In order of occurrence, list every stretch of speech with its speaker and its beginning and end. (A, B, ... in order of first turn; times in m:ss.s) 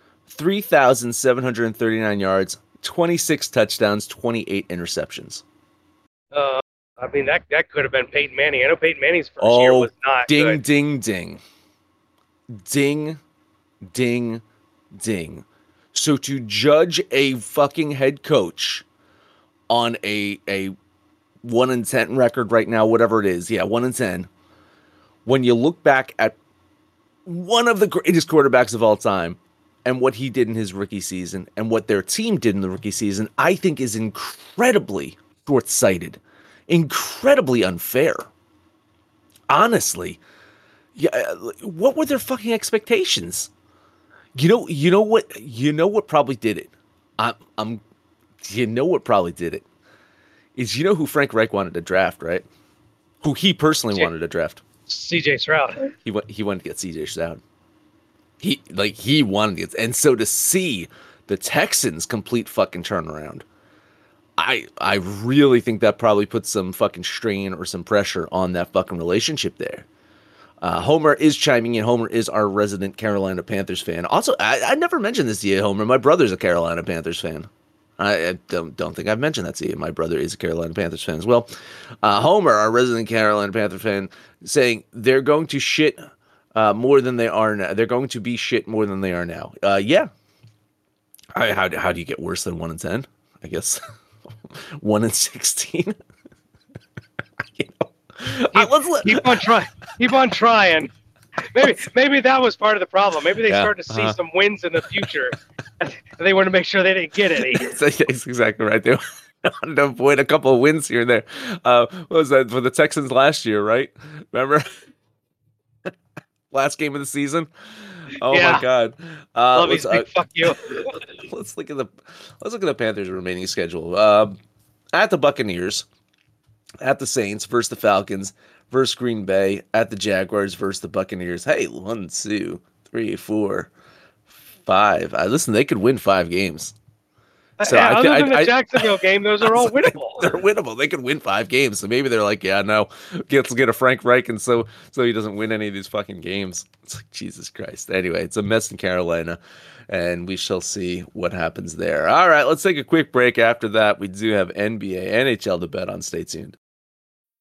0:00.3-0:05.4 A
0:06.3-0:10.6 B
0:09.4-0:11.4 A
0:12.5-0:13.2 A
0:13.9-0:14.4 A
0:15.0-0:18.8 A
0:19.7-0:20.7 A
0:21.4-0:24.3 A
0:25.2-0:26.4 A
0:27.2-0:38.3 A
0:39.5-0:40.2 A
0:41.0-0:43.5 A
0:44.4-0:47.8 A
0:48.4-0:49.6 A
0:50.5-0:52.4 A
0:53.2-0:54.6 A
0:54.9-0:55.9 B
0:56.0-0:57.4 A
0:58.4-1:03.4 A
1:04.4-1:09.8 A
1:10.6-1:21.5 A
1:22.0-1:26.0 A
1:26.5-1:30.1 A
1:31.3-1:33.8 A
1:34.5-1:35.9 A
1:37.5-1:39.5 A
1:38.5-1:40.9 B
1:41.5-1:47.7 B
1:43.5-1:44.2 A
1:47.5-1:54.6 A
1:56.5-2:04.4 A
1:58.3-1:58.6 B
1:59.5-2:01.0 B
2:04.9-2:05.8 A
2:06.8-2:13.7 A
2:14.6-2:16.7 A
2:17.6-2:20.3 B
2:17.6-2:29.4 A
2:29.9-2:36.6 A